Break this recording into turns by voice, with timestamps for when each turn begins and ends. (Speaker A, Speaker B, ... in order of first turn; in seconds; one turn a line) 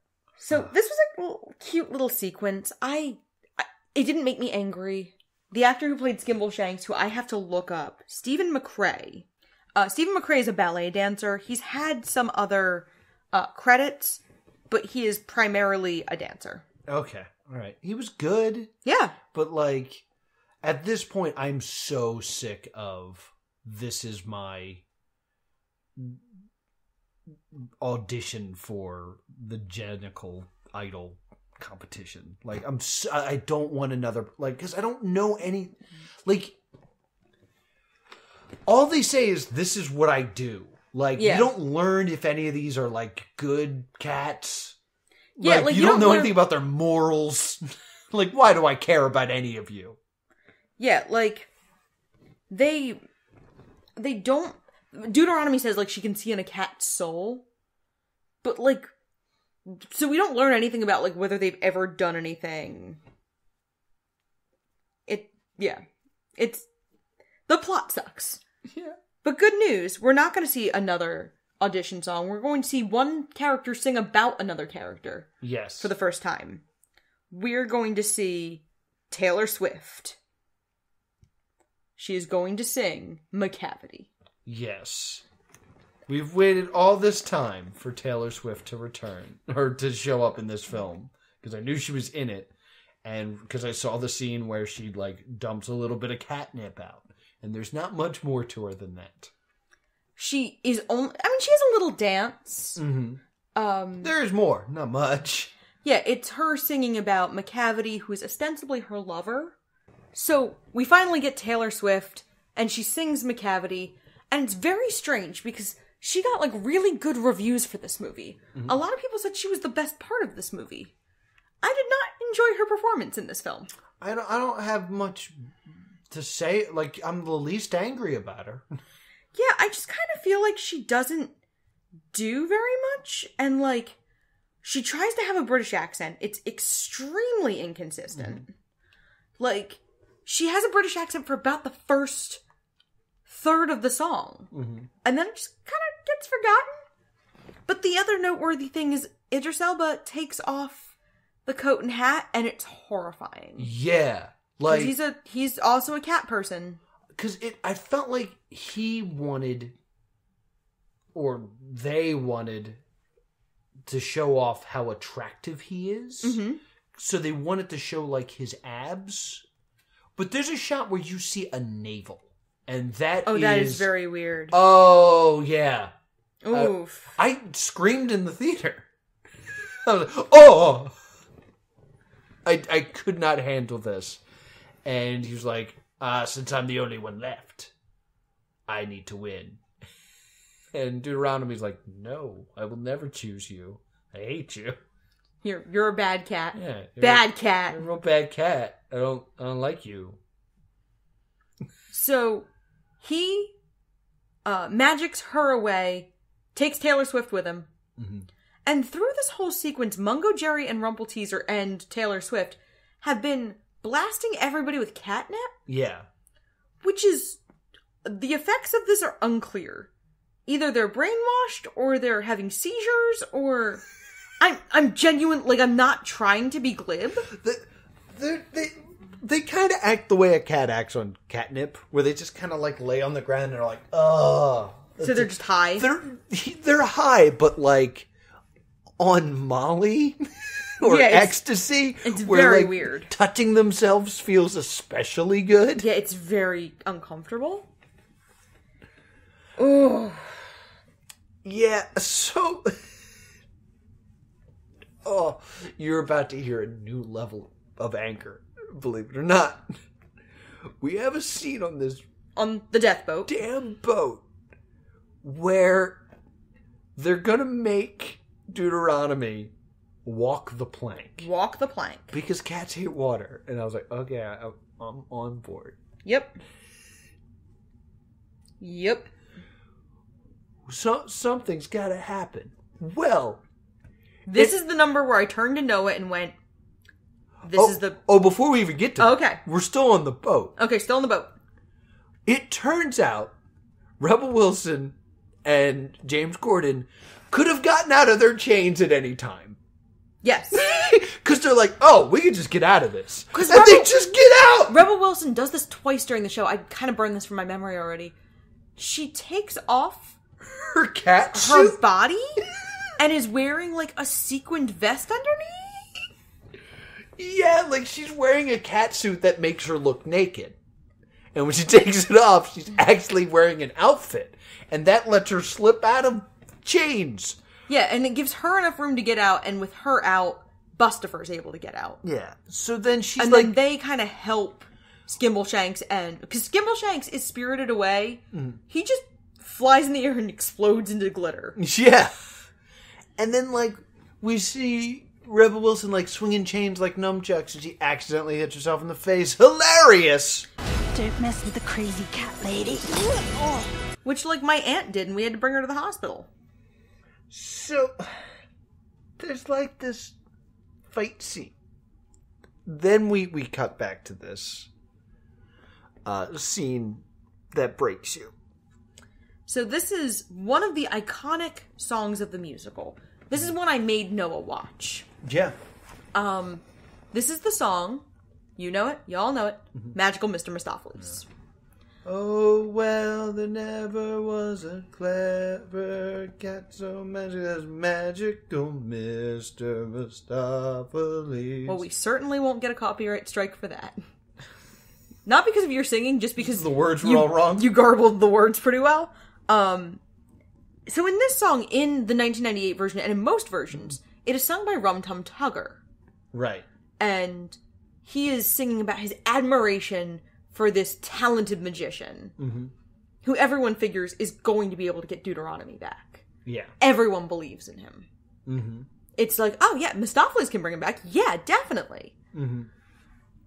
Speaker A: 0.4-16.6
Speaker B: 16.9-18.7
Speaker A: 18.8-19.2
Speaker B: 19.3-20.0
Speaker B: 20.6-24.8
Speaker B: 25.9-26.2
Speaker B: 27.5-36.6
Speaker B: 38.7-44.8
Speaker A: 41.2-41.5
Speaker B: 45.4-50.0
Speaker A: 45.4-46.4
Speaker A: 50.8-51.5
Speaker A: 52.5-53.0
Speaker A: 54.0-57.4
Speaker A: 58.4-58.9
Speaker A: 59.6-63.0
Speaker A: 65.1-65.8
Speaker A: 66.4-66.7
Speaker A: 67.5-68.4
Speaker B: 68.7-69.0
Speaker A: 69.2-76.6
Speaker B: 75.4-75.9
Speaker A: 77.3-80.2
Speaker A: 82.0-84.1
Speaker B: 84.5-85.2
Speaker B: 86.1-92.5
Speaker B: 93.0-99.3
Speaker A: 100.2-102.8
Speaker B: 102.8-103.2
Speaker A: 103.5-104.1
Speaker B: 104.0-105.5
Speaker A: 105.8-109.5
Speaker A: 110.1-120.9
Speaker B: 118.5-118.8
Speaker A: 121.6-123.7
Speaker B: 124.0-128.7
Speaker A: 129.3-131.3
Speaker A: 132.1-134.0
Speaker A: 134.6-138.5
Speaker B: 138.1-138.4
Speaker A: 139.4-142.4
Speaker A: 143.3-144.5
Speaker B: 144.5-144.9
Speaker A: 145.0-146.8
Speaker A: 147.7-150.9
Speaker A: 151.4-153.7
Speaker B: 153.6-154.9
Speaker A: 154.7-156.8
Speaker B: 157.1-159.7
Speaker B: 161.1-162.8
Speaker B: 163.8-166.4
Speaker A: 166.2-166.6
Speaker B: 166.9-169.4
Speaker B: 170.2-173.9
Speaker A: 173.2-174.5
Speaker B: 174.5-175.9
Speaker A: 176.4-177.1
Speaker B: 176.5-178.9
Speaker B: 179.8-180.9
Speaker B: 182.4-184.2
Speaker B: 184.8-187.7
Speaker B: 188.7-189.6
Speaker B: 190.7-194.8
Speaker A: 195.4-197.8
Speaker B: 196.5-200.2
Speaker A: 201.9-202.5
Speaker A: 203.0-203.6
Speaker A: 204.4-207.7
Speaker B: 208.0-208.3
Speaker A: 208.6-215.5
Speaker B: 215.7-216.1
Speaker A: 216.8-217.4
Speaker A: 218.0-219.9
Speaker A: 220.4-223.8
Speaker A: 224.4-227.3
Speaker B: 227.2-238.1
Speaker A: 235.0-235.8
Speaker B: 239.0-245.8
Speaker A: 240.8-241.4
Speaker A: 242.0-243.1
Speaker A: 245.8-247.7
Speaker A: 249.6-250.5
Speaker B: 251.4-253.0
Speaker B: 255.0-259.7
Speaker B: 260.8-262.0
Speaker A: 262.4-263.4
Speaker B: 263.3-264.2
Speaker B: 265.2-266.0
Speaker B: 266.9-269.5
Speaker B: 270.0-271.3
Speaker A: 271.2-272.1
Speaker B: 272.1-275.8
Speaker A: 276.0-276.4
Speaker A: 278.6-279.1
Speaker B: 280.7-283.4
Speaker A: 284.3-286.4
Speaker A: 287.4-288.0
Speaker B: 287.5-290.5
Speaker A: 289.0-289.4
Speaker A: 290.6-291.3
Speaker B: 292.2-293.3
Speaker B: 294.0-299.6
Speaker A: 300.2-300.6
Speaker B: 300.5-304.8
Speaker A: 303.3-303.9
Speaker A: 304.7-308.1
Speaker A: 308.8-310.1
Speaker B: 310.4-311.8
Speaker A: 311.3-312.4
Speaker A: 313.0-316.0
Speaker B: 317.2-320.6
Speaker B: 321.3-327.4
Speaker A: 327.7-332.0
Speaker B: 332.0-333.6
Speaker A: 333.2-341.6
Speaker B: 338.3-338.6
Speaker B: 341.6-342.2
Speaker B: 343.2-350.5
Speaker C: 350.9-353.6
Speaker A: 354.0-356.3
Speaker B: 357.3-358.4
Speaker B: 359.2-360.1
Speaker B: 360.9-361.5
Speaker B: 362.6-364.7
Speaker B: 366.0-368.3
Speaker A: 369.5-375.1
Speaker B: 375.2-375.6
Speaker A: 376.1-378.1
Speaker A: 378.6-381.3
Speaker B: 382.0-391.8
Speaker A: 391.6-394.0
Speaker A: 395.2-400.0
Speaker B: 396.4-397.7
Speaker A: 400.9-405.8
Speaker B: 403.7-404.0
Speaker B: 406.3-406.6
Speaker A: 407.0-412.4
Speaker B: 412.4-412.7
Speaker A: 413.2-416.2
Speaker B: 416.4-416.7
Speaker A: 416.8-418.1
Speaker B: 418.4-418.9
Speaker A: 419.1-422.1
Speaker B: 422.3-422.7